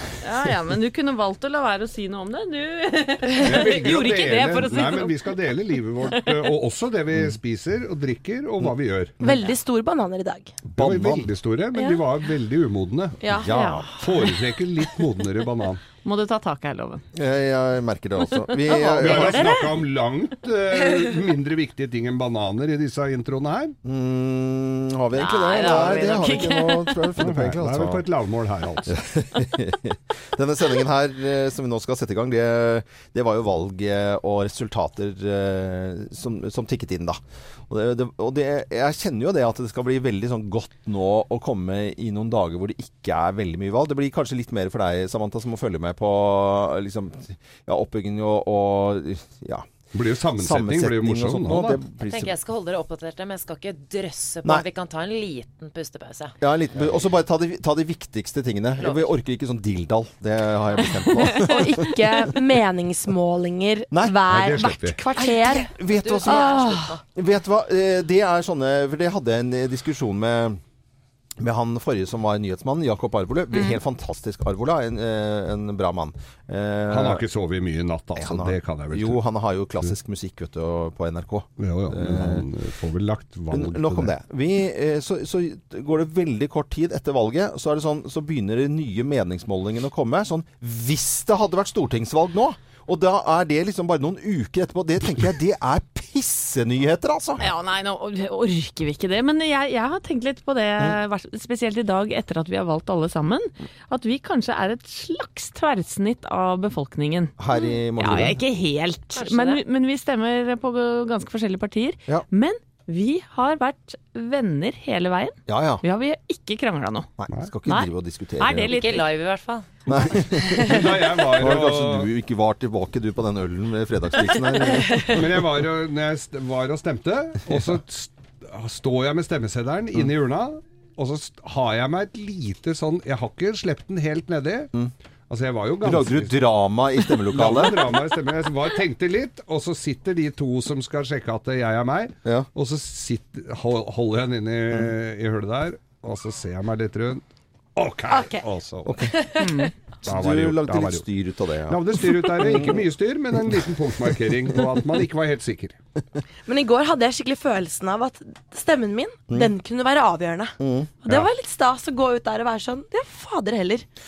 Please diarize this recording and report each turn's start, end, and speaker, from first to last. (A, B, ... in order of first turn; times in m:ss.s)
0:00.2-0:05.5 A
0:03.4-0:09.1 B
0:06.0-0:06.4 A
0:07.1-0:07.4 C
0:09.2-0:10.5 D
0:10.7-0:11.3 C
0:10.7-0:13.2 B
0:13.2-0:13.5 D
0:13.4-0:13.9 C
0:13.5-0:13.9 A
0:14.0-0:15.8 B
0:16.0-0:17.0 A
0:17.1-0:19.5 C
0:19.0-0:23.8 B
0:19.1-0:19.6 D
0:23.8-0:28.0 C
0:25.1-0:27.1 A
0:27.2-0:29.0 B
0:28.9-0:49.7 C
0:49.9-0:51.8 B
0:50.4-0:52.4 C
0:52.0-0:56.4 E
0:56.4-1:01.9 C
0:58.8-0:59.1 E
1:01.4-1:06.9 D
1:03.9-1:04.8 C
1:04.3-1:05.0 B
1:05.3-1:07.0 E
1:05.5-1:10.6 C
1:11.4-1:17.2 C
1:16.9-1:19.2 B
1:18.2-1:22.5 C
1:21.6-1:24.1 B
1:23.5-1:37.5 C
1:37.4-1:47.4 A
1:47.4-1:48.4 C
1:47.9-1:57.1 A
1:49.1-1:49.6 E
1:55.5-1:55.8 C
1:57.2-1:58.8 C
1:57.7-1:59.0 A
1:58.6-2:00.3 E
1:59.8-2:05.4 C
2:00.6-2:02.1 B
2:04.8-2:05.1 D
2:05.1-2:14.7 B
2:15.3-2:16.4 B
2:15.8-2:18.0 C
2:17.3-2:27.2 B
2:27.8-2:28.9 B
2:28.1-2:28.4 D
2:28.8-2:29.2 C
2:29.1-2:29.5 D
2:29.4-2:29.7 A
2:30.0-2:31.0 B
2:30.0-2:33.7 C
2:31.7-2:35.8 B
2:36.4-2:43.8 D
2:40.6-2:40.9 C